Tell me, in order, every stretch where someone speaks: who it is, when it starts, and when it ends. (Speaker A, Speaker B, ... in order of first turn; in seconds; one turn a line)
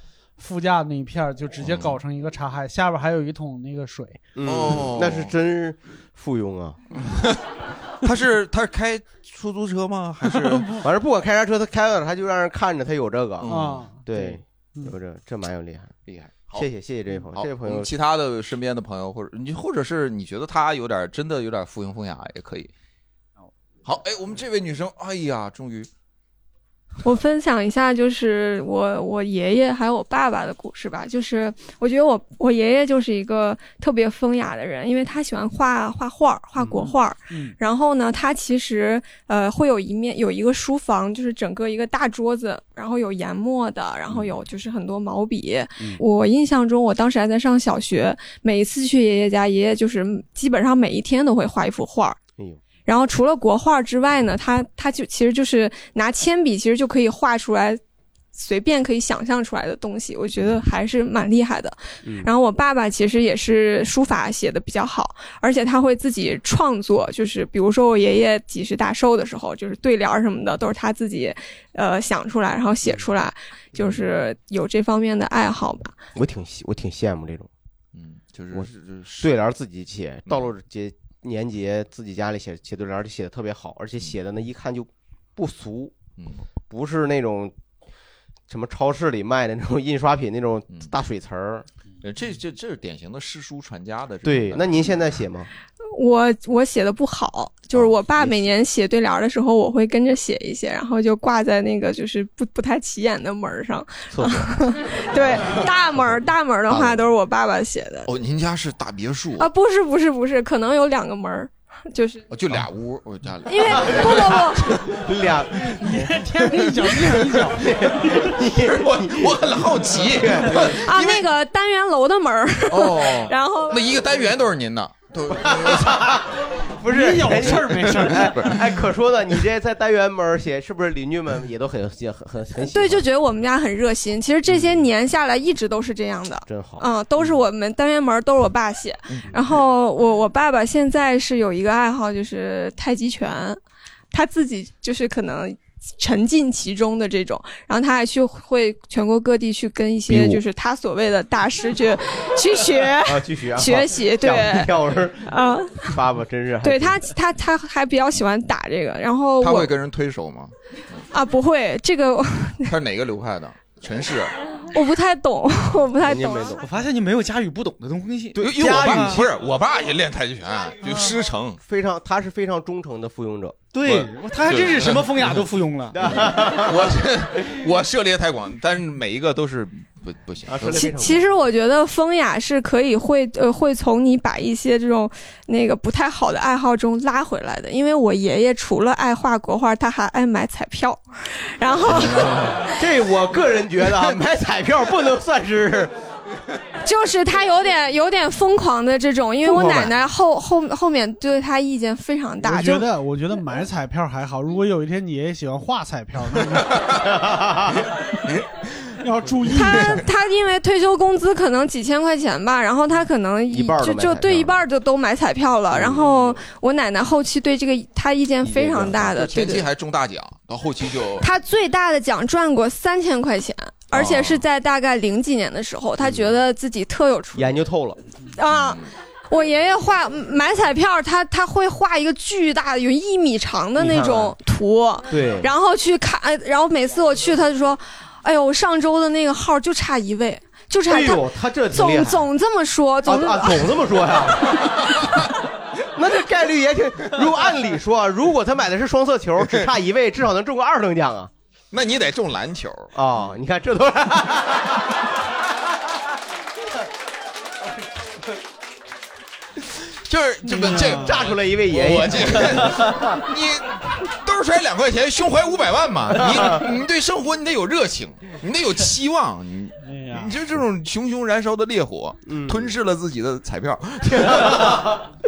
Speaker A: 0.4-4.2
Speaker B: 1.6-2.0
Speaker C: 4.3-6.8
Speaker B: 4.4-5.3
Speaker B: 7.0-7.4
Speaker B: 8.0-10.7
Speaker A: 10.5-10.8
Speaker C: 10.8-15.9
Speaker B: 13.4-13.9
Speaker A: 13.5-14.9
Speaker B: 16.1-16.7
Speaker C: 16.5-17.9
Speaker B: 17.3-22.7
Speaker B: 23.8-25.9
Speaker D: 27.0-52.2
Speaker C: 36.6-36.9
Speaker D: 52.8-57.8
Speaker D: 58.3-76.0
Speaker C: 62.0-62.3
Speaker C: 76.1-77.5
Speaker B: 77.9-79.3
Speaker C: 79.2-86.0
Speaker B: 86.2-86.4
Speaker C: 86.7-87.5
Speaker C: 88.5-91.7
Speaker B: 92.0-94.9
Speaker C: 94.2-95.5
Speaker D: 95.9-108.1
Speaker C: 97.7-98.5
Speaker C: 104.1-104.5
Speaker C: 106.7-107.0
Speaker B: 108.0-109.5
Speaker D: 109.4-112.2
Speaker B: 112.3-115.0
Speaker D: 113.5-114.7
Speaker C: 113.9-114.2
Speaker C: 114.8-116.0
Speaker A: 115.8-118.0
Speaker C: 117.6-120.8
Speaker B: 118.5-121.3
Speaker D: 120.7-123.9
Speaker B: 122.7-126.2
Speaker C: 125.4-133.0
Speaker A: 126.9-128.4
Speaker B: 127.7-128.7
Speaker D: 132.6-143.6
Speaker C: 134.5-134.8
Speaker C: 136.5-137.2
Speaker D: 144.1-156.0
Speaker C: 150.1-150.4
Speaker C: 153.0-155.3
Speaker C: 155.8-157.0
Speaker D: 156.6-159.7
Speaker B: 159.4-161.0
Speaker D: 161.1-162.7
Speaker B: 162.7-164.3
Speaker D: 164.7-166.7
Speaker C: 166.0-166.6
Speaker E: 166.6-169.2
Speaker C: 168.3-169.3
Speaker B: 168.4-171.6
Speaker C: 171.6-173.6
Speaker E: 173.7-176.0
Speaker B: 173.8-175.3
Speaker C: 175.9-177.0
Speaker B: 176.1-180.9
Speaker C: 180.4-181.2
Speaker D: 180.7-191.0
Speaker D: 191.6-192.7
Speaker B: 192.0-192.5
Speaker C: 192.8-195.9
Speaker D: 196.8-202.9
Speaker C: 199.4-199.9
Speaker A: 202.4-206.8
Speaker A: 209.0-210.0
Speaker D: 209.5-219.7
Speaker C: 213.5-214.6
Speaker C: 215.7-216.3
Speaker C: 218.4-219.2
Speaker B: 219.1-221.2
Speaker D: 221.2-227.5
Speaker B: 223.9-224.4
Speaker C: 227.3-228.0
Speaker D: 228.3-243.8
Speaker B: 228.5-228.9
Speaker C: 233.8-234.3
Speaker C: 235.1-235.5
Speaker C: 240.9-242.2
Speaker C: 243.0-244.5
Speaker C: 245.9-251.3
Speaker B: 251.7-252.9
Speaker C: 252.9-254.7
Speaker B: 259.7-274.8
Speaker A: 260.5-261.2
Speaker C: 260.7-262.9
Speaker A: 269.8-270.4
Speaker C: 272.3-272.7
Speaker C: 274.3-274.8